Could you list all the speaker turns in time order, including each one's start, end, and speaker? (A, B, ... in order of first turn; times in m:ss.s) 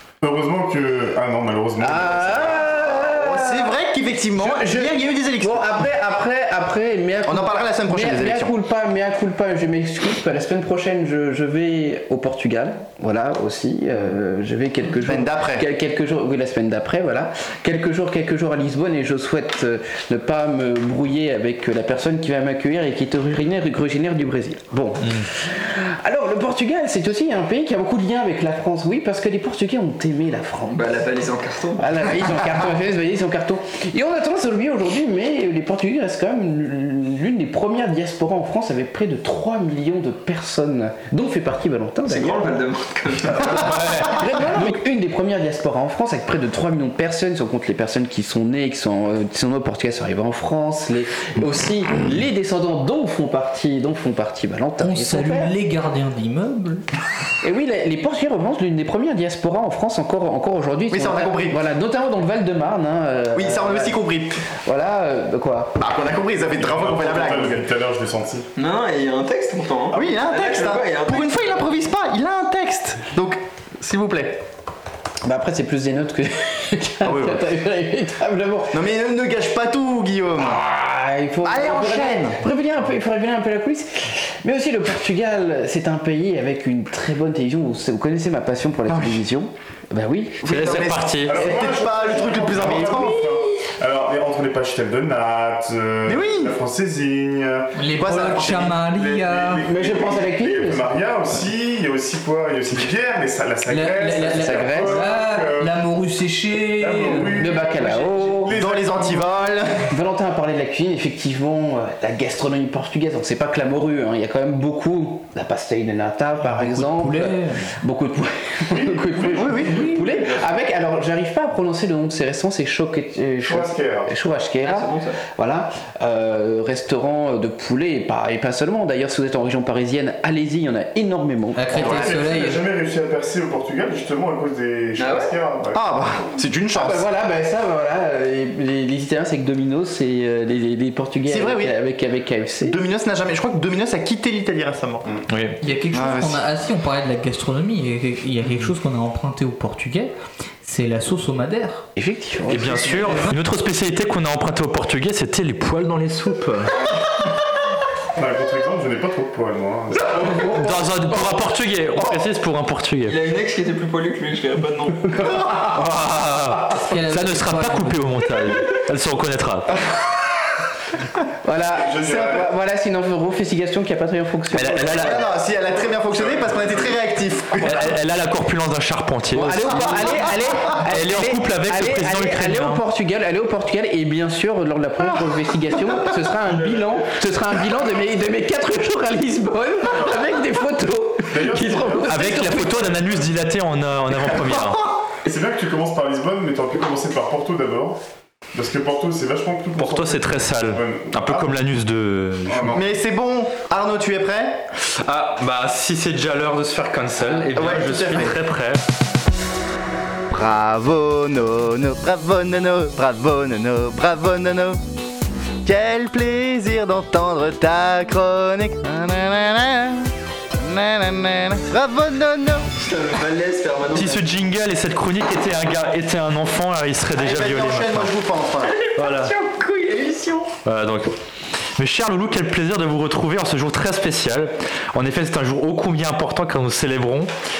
0:00.2-0:02.7 A
0:01.8-0:03.8 B
0:03.0-0:05.7 C
0:04.3-0:31.1 B
0:07.3-0:08.5 C
0:15.0-0:15.7 C
0:30.7-0:31.9 D
0:31.8-0:42.6 B
0:42.1-0:44.1 D
0:43.3-0:55.5 B
0:54.8-0:56.8 E
0:57.4-1:04.0 B
1:00.9-1:01.6 C
1:03.4-1:04.4 C
1:04.6-1:05.8 B
1:05.8-1:07.6 C
1:06.6-1:08.5 A
1:08.6-1:11.6 D
1:09.9-1:14.4 C
1:15.2-1:18.8 B
1:17.0-1:17.4 C
1:18.7-1:20.6 C
1:20.4-1:30.7 B
1:21.4-1:22.4 C
1:28.9-1:29.2 C
1:30.4-1:33.2 C
1:30.5-1:31.5 F
1:31.2-1:37.7 A
1:31.5-1:33.4 B
1:36.1-1:36.6 C
1:37.8-1:39.6 E
1:37.9-1:38.8 C
1:38.8-1:45.8 A
1:39.6-1:40.9 B
1:43.7-1:47.5 E
1:44.2-1:45.1 B
1:46.8-1:49.3 A
1:47.3-1:48.6 B
1:48.5-1:49.9 C
1:49.9-2:12.1 B
1:56.4-1:57.7 E
1:58.7-2:00.5 A
1:59.4-1:59.8 C
1:59.6-2:00.0 E
2:03.4-2:04.1 A
2:04.6-2:05.2 D
2:11.6-2:12.6 E
2:11.7-2:15.8 A
2:15.0-2:15.3 D
2:15.7-2:17.0 C
2:16.7-2:22.8 B
2:21.3-2:21.7 C
2:22.6-2:25.2 C
2:25.3-2:25.6 F
2:25.6-2:31.8 E
2:25.9-2:26.4 C
2:32.0-2:33.2 B
2:32.5-2:36.7 F
2:33.0-2:33.3 E
2:38.2-2:40.6 A
2:40.6-2:43.2 F
2:43.1-2:45.3 D
2:45.6-2:49.8 F
2:46.8-2:48.0 E
2:51.4-2:55.2 B
2:51.8-2:52.5 A
2:54.5-2:55.2 F
2:54.9-2:57.9 C
2:56.1-2:57.0 A
2:57.6-3:00.1 F
2:59.3-3:13.0 B
2:59.8-3:00.8 C
3:00.9-3:02.8 F
3:11.3-3:13.3 A
3:12.0-3:14.9 F
3:15.2-3:18.0 A
3:18.5-3:21.6 A
3:19.8-3:22.7 F
3:22.5-3:22.8 A
3:22.7-3:24.6 C
3:25.0-3:28.8 F
3:27.3-3:28.4 C
3:30.3-3:34.8 C
3:35.6-3:42.7 C
3:42.8-3:44.3 D
3:43.9-3:48.1 F
3:47.2-3:48.8 C
3:48.7-3:50.5 D
3:49.0-3:49.3 F
3:50.6-3:51.1 F
3:51.8-3:57.3 F